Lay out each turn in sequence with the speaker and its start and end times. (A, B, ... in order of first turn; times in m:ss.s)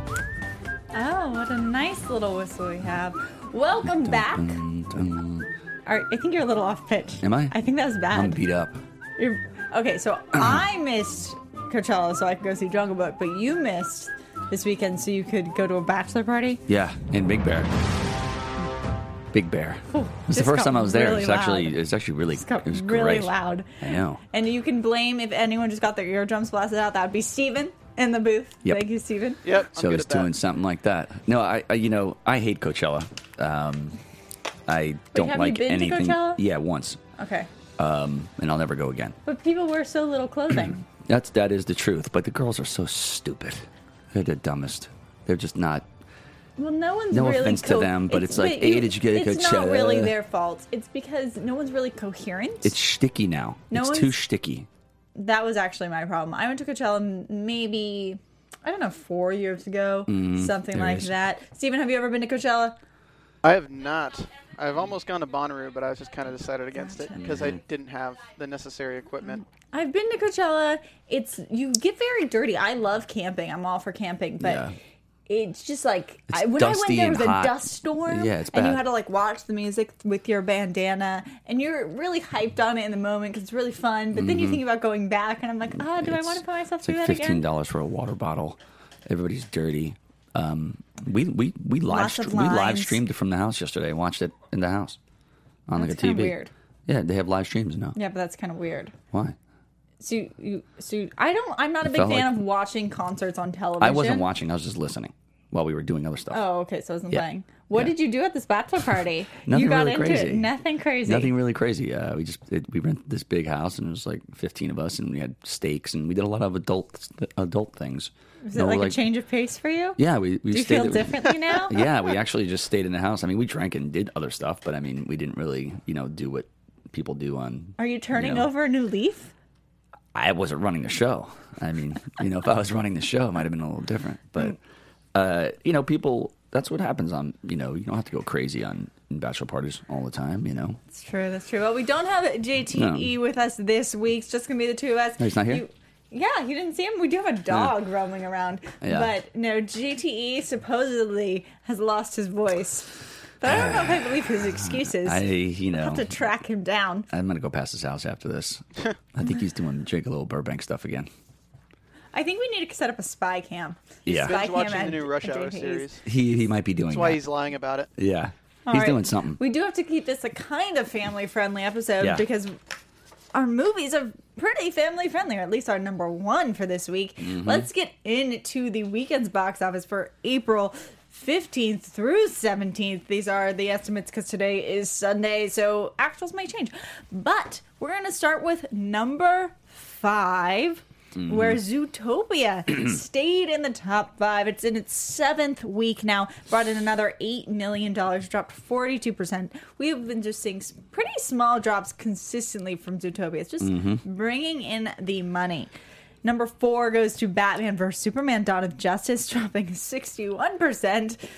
0:00.9-0:04.6 A
0:03.8-0:05.5 B
0:05.8-0:08.4 A
0:07.2-0:07.6 B
0:08.1-0:08.8 B
0:09.2-0:16.6 A
0:10.3-0:10.6 B
0:16.7-0:17.7 B
0:19.3-0:24.2 B
0:19.9-0:21.8 A
0:22.3-0:29.4 A
0:29.4-0:30.3 C
0:29.7-0:34.0 B
0:34.7-0:37.0 B
0:35.1-0:36.4 A
0:37.2-0:37.5 A
0:37.8-0:39.2 B
0:39.2-0:40.8 A
0:40.9-0:45.9 B
0:46.6-0:52.8 A
0:47.1-0:50.1 B
0:52.6-0:54.7 B
0:53.7-0:54.2 A
0:55.1-1:02.8 A
1:00.1-1:01.1 B
1:03.4-1:09.4 C
1:06.7-1:07.4 A
1:07.2-1:07.6 B
1:09.7-1:14.6 A
1:14.4-1:14.8 B
1:15.3-1:27.4 A
1:16.3-1:18.9 B
1:24.1-1:24.6 B
1:25.7-1:35.0 B
1:31.9-1:33.0 A
1:35.7-1:38.0 B
1:35.8-1:36.5 A
1:37.9-1:38.9 A
1:40.0-1:44.3 A
1:41.8-1:42.4 B
1:43.8-1:46.4 B
1:46.3-1:51.3 A
1:47.1-1:47.9 B
1:49.4-1:50.5 B
1:51.0-1:59.0 B
1:58.4-2:00.0 A
2:00.0-2:08.5 B
2:00.5-2:01.9 A
2:07.8-2:09.3 A
2:10.1-2:14.6 B
2:15.1-2:20.8 B
2:20.9-2:37.1 A
2:22.7-2:23.1 B
2:25.2-2:25.6 B
2:28.8-2:29.1 B
2:33.4-2:36.1 B
2:37.1-2:38.6 B
2:39.1-2:41.1 B
2:42.1-2:45.9 A
2:44.0-2:44.4 B
2:44.2-2:46.0 C
2:46.0-2:47.2 B
2:46.9-2:47.9 C
2:48.0-2:49.4 B
2:48.7-2:52.6 A
2:52.0-2:52.2 B
2:53.3-3:25.7 A
2:57.2-2:57.7 B
3:11.2-3:11.6 B
3:23.6-3:24.0 B
3:26.2-3:31.2 A